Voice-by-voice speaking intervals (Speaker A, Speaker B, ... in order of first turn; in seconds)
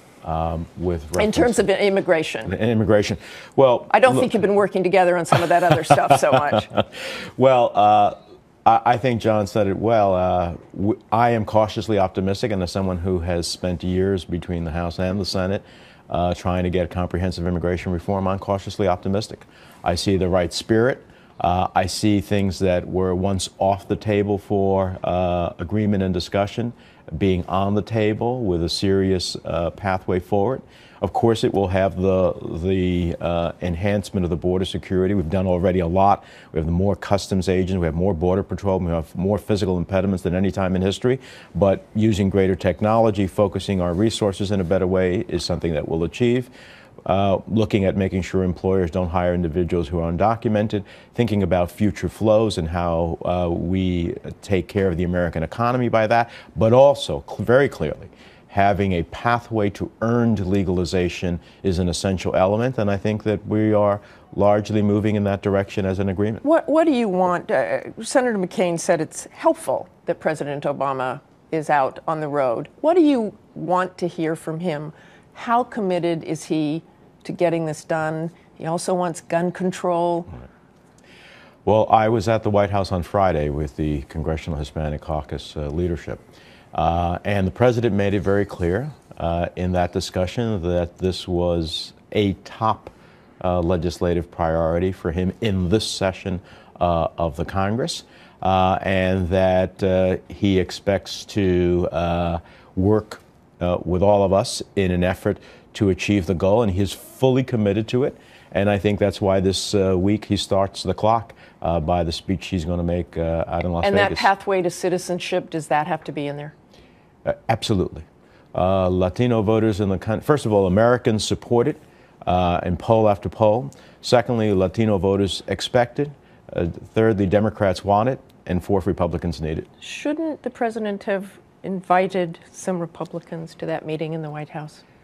Speaker A: 0.2-1.7, 2.4-4.3, 7.4-46.5, 47.0-66.4, 81.7-114.3, 117.2-129.7
Speaker B: 1.2-2.5, 3.9-6.7, 66.4-80.3, 113.8-116.5, 129.8-134.8